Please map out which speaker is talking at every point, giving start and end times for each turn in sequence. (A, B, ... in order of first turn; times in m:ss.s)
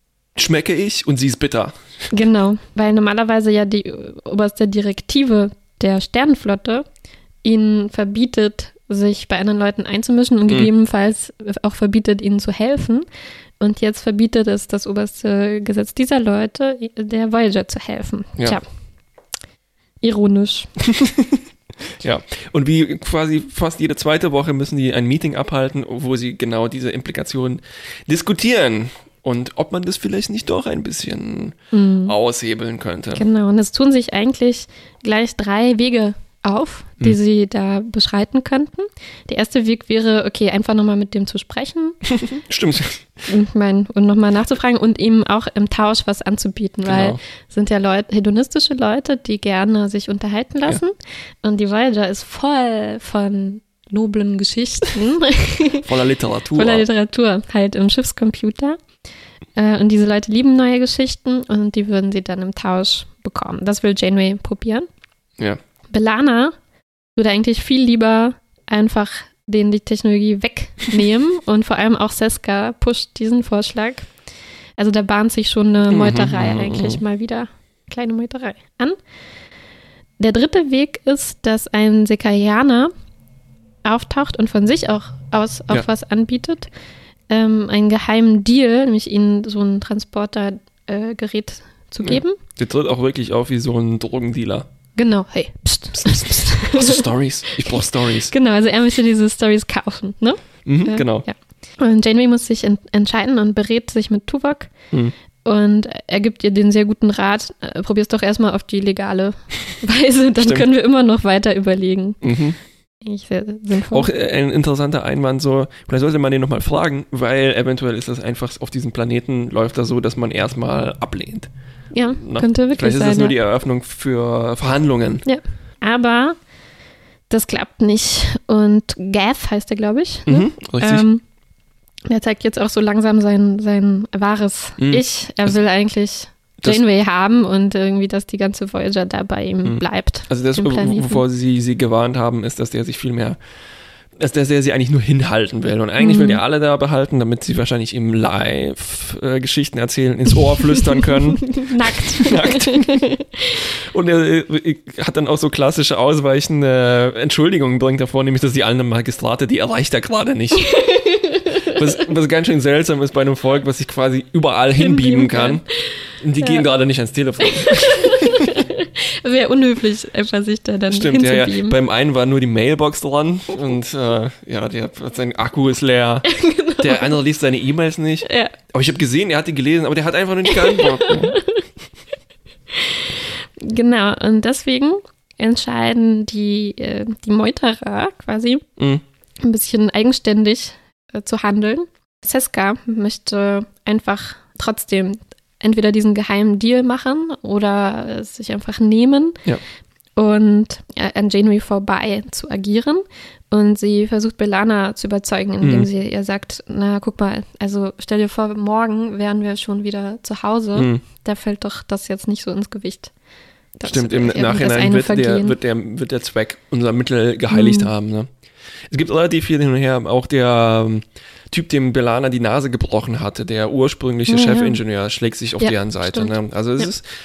0:00.4-0:01.8 A
0:02.1-0:06.8 B
0:07.4-0:13.0 B
0:13.6-0:18.6 B
0:20.0-0:20.7 B
0:20.8-0:21.4 A
0:22.0-0:33.2 A
0:31.7-0:32.1 B
0:33.1-0:42.0 B
0:42.1-0:43.1 A
0:43.3-0:55.9 B
0:46.8-0:47.2 A
0:55.8-0:56.8 A
0:56.5-0:58.8 B
0:59.6-1:04.9 B
1:05.9-1:06.5 B
1:07.2-1:14.1 B
1:14.8-1:19.0 B
1:15.9-1:17.0 A
1:20.2-1:22.9 B
1:23.8-1:26.7 B
1:27.3-1:32.4 B
1:32.0-1:34.7 A
1:35.0-1:44.7 B
1:35.9-1:38.3 A
1:40.6-1:41.2 A
1:45.4-1:52.2 B
1:50.4-1:50.6 A
1:52.2-1:52.6 A
1:53.0-1:54.1 B
1:53.9-2:01.5 A
2:01.9-2:03.4 B
2:02.1-2:05.2 A
2:05.2-2:06.4 B
2:07.3-2:11.2 B
2:10.3-2:11.1 A
2:12.1-2:21.2 B
2:14.8-2:15.5 A
2:19.6-2:23.4 A
2:24.2-2:40.7 A
2:26.0-2:26.4 B
2:31.1-2:33.6 B
2:40.5-2:42.0 B
2:41.7-2:45.6 A
2:44.8-2:46.6 B
2:46.2-2:48.6 A
2:47.4-2:51.8 B
2:50.9-2:56.3 A
2:56.2-2:57.2 B
2:56.8-3:01.4 A
2:58.2-2:58.6 B
3:00.5-3:01.7 B
3:02.7-3:08.6 B
3:08.8-3:09.0 A
3:09.4-3:19.4 B
3:20.2-3:33.1 B
3:25.6-3:25.9 A
3:30.7-3:31.0 A
3:33.8-3:35.6 B
3:33.8-3:38.3 A
3:37.5-3:37.9 B
3:38.9-3:47.0 A
3:44.3-3:44.8 B
3:45.6-3:46.3 B